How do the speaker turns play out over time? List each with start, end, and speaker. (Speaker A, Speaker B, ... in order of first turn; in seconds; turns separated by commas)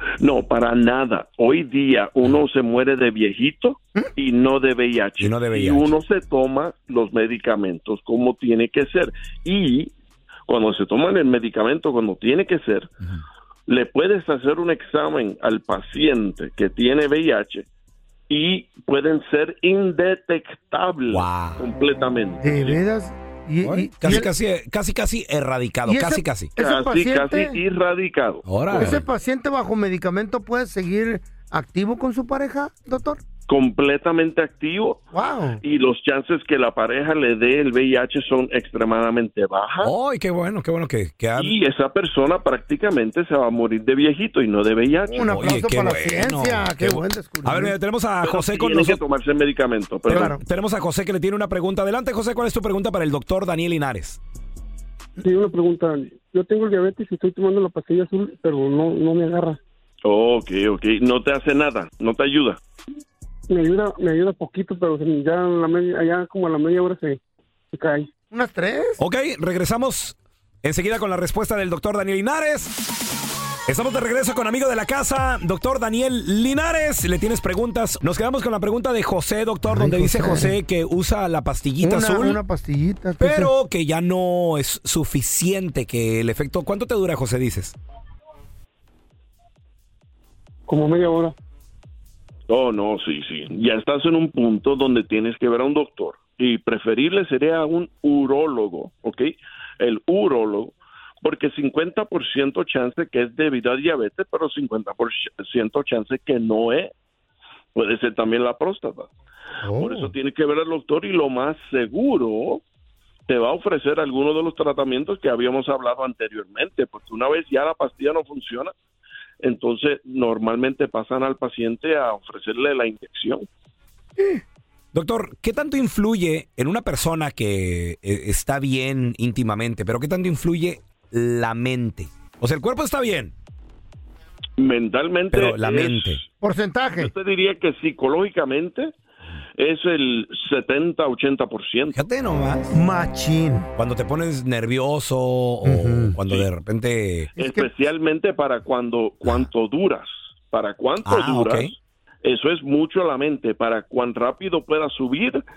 Speaker A: 0.2-9.9, Speaker B: 5.2-5.9, Speaker A: 10.5-12.9, Speaker A: 13.7-17.6, Speaker A: 18.3-22.8, Speaker B: 21.1-21.7, Speaker C: 22.4-24.3, Speaker B: 23.6-26.5, Speaker C: 25.9-27.6, Speaker A: 26.6-29.0, Speaker B: 28.4-29.0, Speaker C: 28.7-33.2, Speaker A: 33.5-35.0, Speaker C: 35.1-35.6, Speaker A: 35.6-39.9, Speaker B: 39.8-41.5, Speaker A: 41.4-45.3, Speaker C: 45.1-47.7, Speaker B: 45.3-49.0, Speaker A: 48.2-50.4, Speaker B: 50.1-54.2, Speaker D: 55.2-59.6, Speaker A: 60.0-62.6, Speaker D: 63.5-67.2, Speaker D: 67.7-68.1, Speaker C: 68.3-69.0, Speaker B: 69.0-72.8, Speaker B: 73.7-82.4, Speaker C: 79.7-80.5, Speaker C: 81.8-83.5, Speaker B: 83.2-87.7, Speaker D: 90.7-91.3, Speaker A: 92.5-106.9, Speaker A: 107.7-109.1, Speaker C: 109.6-110.1, Speaker A: 109.8-112.6, Speaker A: 113.3-118.7, Speaker A: 119.4-123.5, Speaker B: 124.9-133.3, Speaker A: 134.6-136.2, Speaker B: 135.3-136.2, Speaker C: 136.4-137.1, Speaker A: 137.0-138.9, Speaker A: 139.6-142.0, Speaker B: 141.9-142.7, Speaker C: 142.7-143.7, Speaker B: 143.8-147.3, Speaker C: 145.6-146.2, Speaker A: 147.4-155.4, Speaker C: 147.4-147.7, Speaker B: 151.1-151.7